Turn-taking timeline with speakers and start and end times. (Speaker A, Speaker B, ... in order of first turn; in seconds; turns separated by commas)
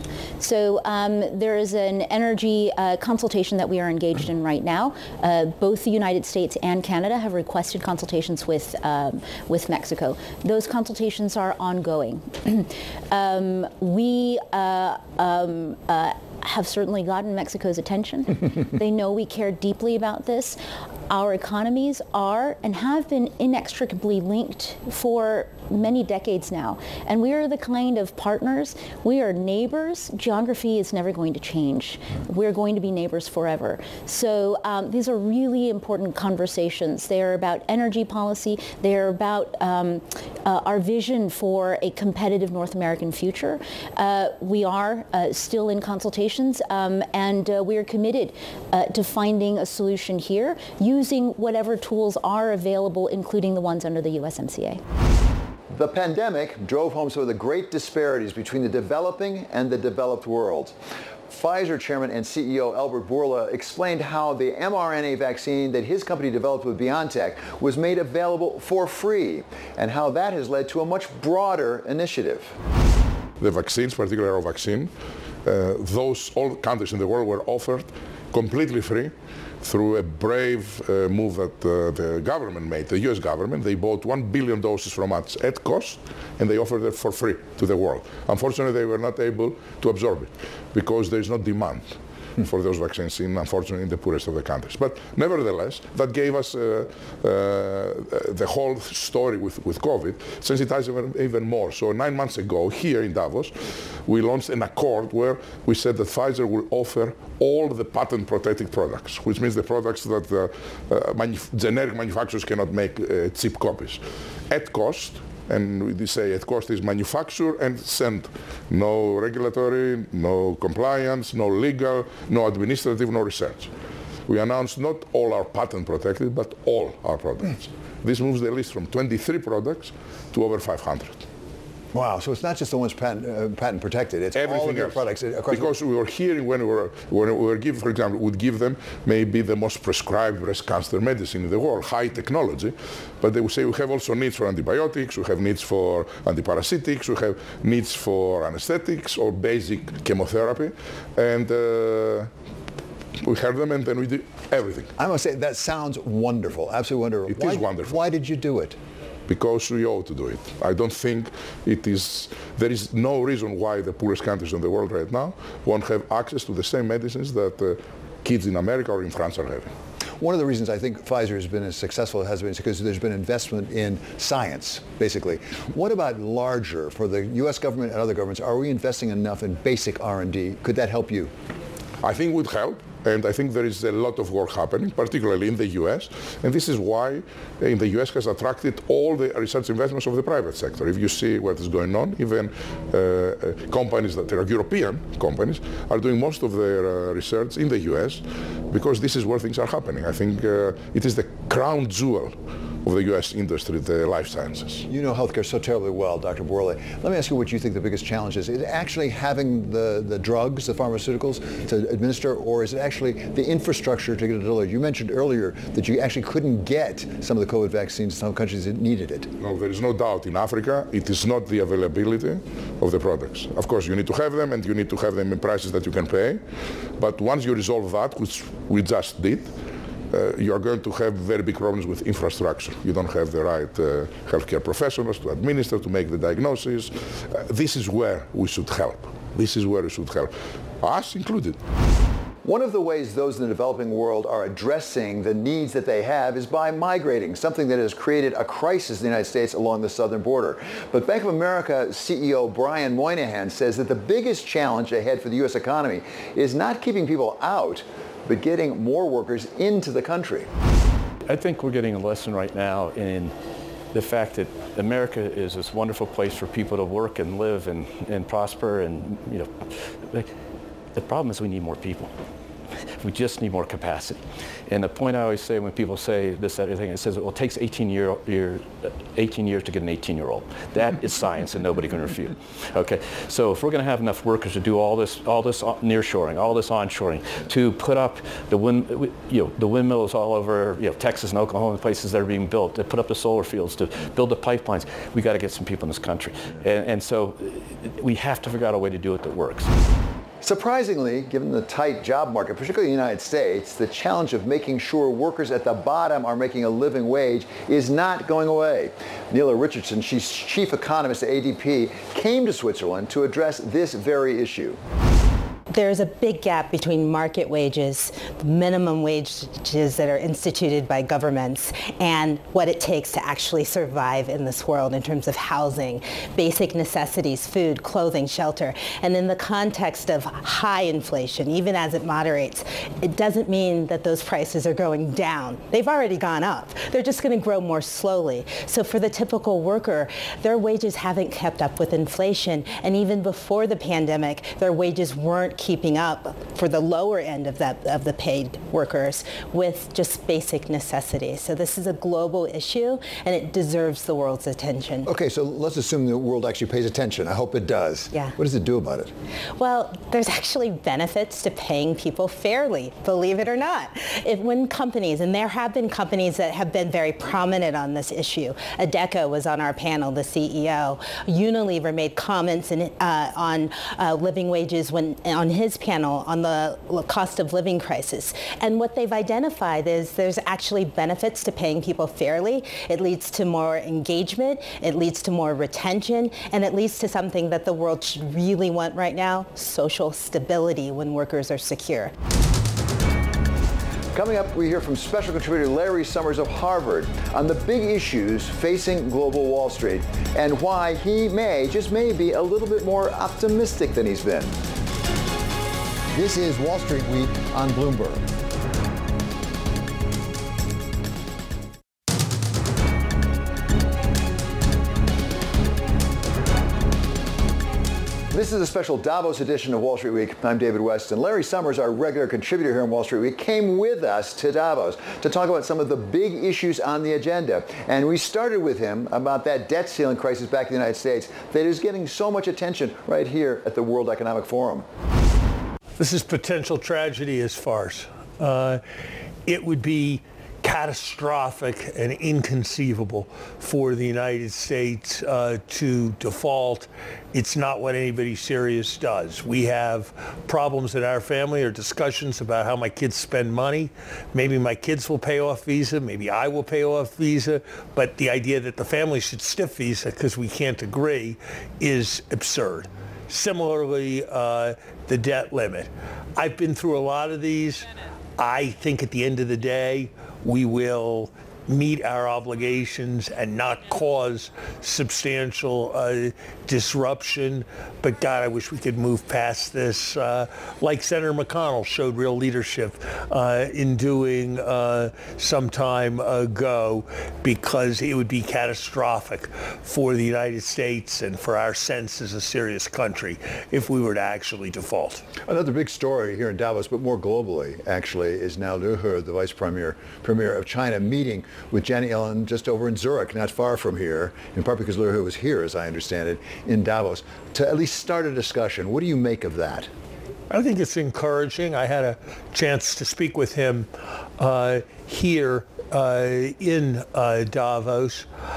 Speaker A: 0.4-54.8, Speaker B: 55.7-60.8, Speaker B: 61.3-72.5, Speaker C: 73.4-74.9, Speaker C: 75.5-123.7, Speaker C: 124.3-131.2, Speaker B: 131.9-135.7, Speaker C: 134.3-152.3, Speaker C: 153.2-154.9, Speaker B: 155.0-158.8, Speaker C: 157.3-157.9, Speaker C: 159.3-169.7, Speaker B: 170.2-181.3, Speaker C: 182.0-204.8, Speaker B: 204.9-219.3, Speaker C: 219.4-226.4, Speaker C: 227.0-229.5, Speaker C: 230.1-241.6, Speaker B: 242.4-260.5, Speaker D: 261.3-263.3, Speaker D: 263.9-270.3, Speaker D: 270.9-272.1, Speaker D: 273.0-299.7, Speaker B: 300.4-314.8, Speaker E: 315.7-355.1, Speaker B: 355.1-359.1, Speaker E: 359.6-392.1, Speaker B: 394.1-404.6, Speaker B: 406.1-408.2, Speaker B: 418.3-434.9, Speaker F: 436.0-438.8, Speaker F: 439.5-467.9, Speaker F: 468.4-495.2, Speaker B: 495.4-509.9, Speaker F: 510.5-518.3